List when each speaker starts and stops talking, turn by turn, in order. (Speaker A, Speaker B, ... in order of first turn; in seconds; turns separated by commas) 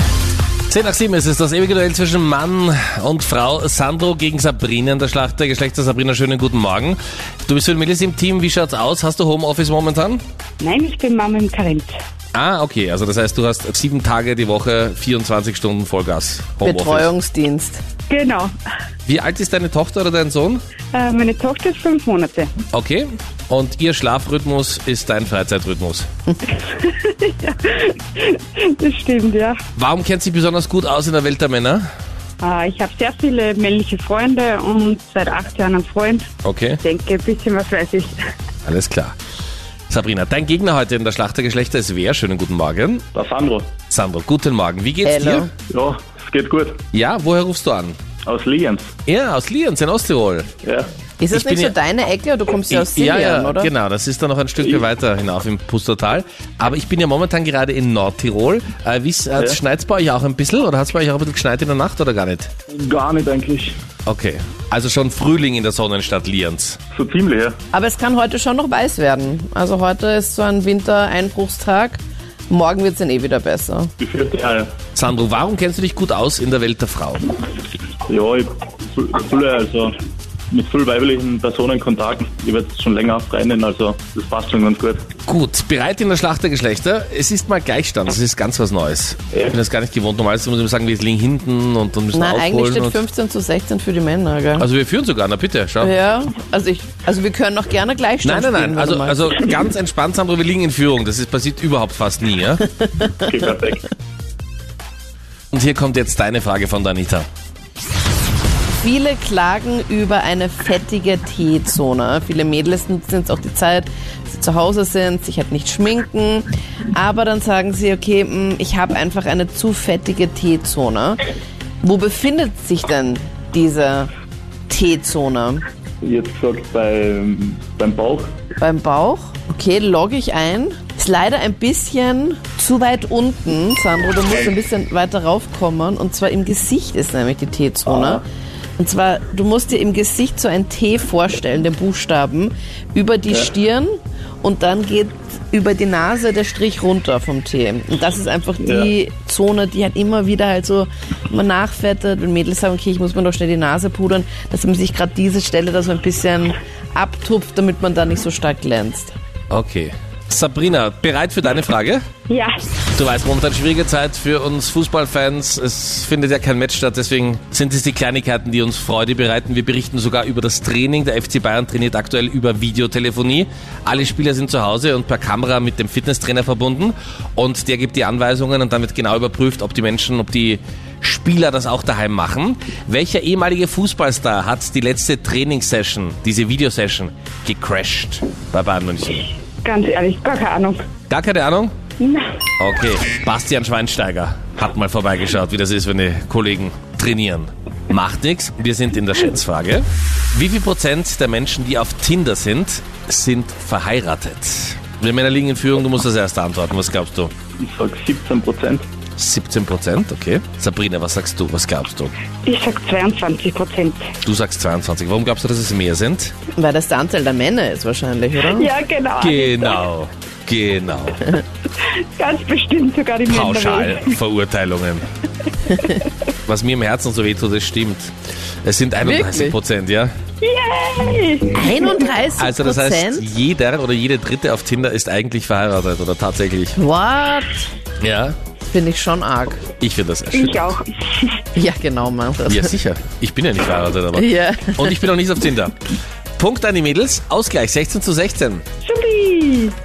Speaker A: 0.7-10.2, Speaker B: 10.6-11.9, Speaker A: 12.3-17.1, Speaker C: 16.6-17.8, Speaker B: 18.1-18.5, Speaker A: 19.1-20.6, Speaker B: 20.9-22.5, Speaker A: 22.7-26.1, Speaker B: 26.6-29.6, Speaker A: 29.8-31.8, Speaker B: 32.4-36.3, Speaker A: 36.4-36.8, Speaker B: 36.8-38.3, Speaker A: 38.6-39.1, Speaker A: 39.9-43.0, Speaker D: 43.1-43.7, Speaker A: 43.9-45.5, Speaker C: 45.0-45.5, Speaker D: 45.7-46.8, Speaker A: 46.9-48.0, Speaker D: 48.2-48.9, Speaker A: 49.0-50.5, Speaker D: 50.6-50.9, Speaker C: 51.2-53.7, Speaker A: 51.3-51.7, Speaker A: 52.7-62.5, Speaker D: 62.7-63.7, Speaker A: 64.0-66.8, Speaker D: 66.9-67.6, Speaker C: 67.7-73.9, Speaker D: 74.0-74.7, Speaker A: 74.9-77.3, Speaker D: 78.1-79.9, Speaker D: 80.5-85.0, Speaker A: 85.3-93.0, Speaker C: 92.1-94.6, Speaker A: 94.6-95.9, Speaker C: 95.8-99.4, Speaker A: 98.2-102.6, Speaker C: 102.8-103.2, Speaker D: 103.2-103.9, Speaker A: 105.5-107.2, Speaker C: 108.8-121.2, Speaker C: 121.8-124.1, Speaker C: 124.7-125.6, Speaker D: 126.0-128.3, Speaker C: 128.6-138.2, Speaker D: 137.9-138.2, Speaker C: 138.8-159.1, Speaker D: 148.6-148.9, Speaker A: 159.5-162.0, Speaker B: 162.3-162.7, Speaker A: 162.9-189.3, Speaker B: 189.6-190.8, Speaker A: 191.1-191.7, Speaker B: 192.0-192.3, Speaker A: 192.6-207.3, Speaker D: 207.6-208.8, Speaker A: 209.2-212.1, Speaker B: 212.4-214.0, Speaker A: 214.2-216.3, Speaker C: 216.5-218.7, Speaker B: 218.5-219.8, Speaker A: 219.2-221.4, Speaker B: 221.8-224.1, Speaker A: 223.3-225.1, Speaker A: 226.4-228.1, Speaker A: 228.6-230.1, Speaker C: 229.0-229.6, Speaker B: 230.4-232.1, Speaker C: 231.5-233.3, Speaker A: 232.4-236.8, Speaker C: 236.8-237.7, Speaker A: 238.0-238.3, Speaker C: 238.6-239.6, Speaker A: 239.8-240.7, Speaker B: 240.3-241.3, Speaker C: 241.5-242.7, Speaker A: 242.4-245.8, Speaker C: 244.1-245.0, Speaker A: 246.4-248.6, Speaker B: 248.8-249.7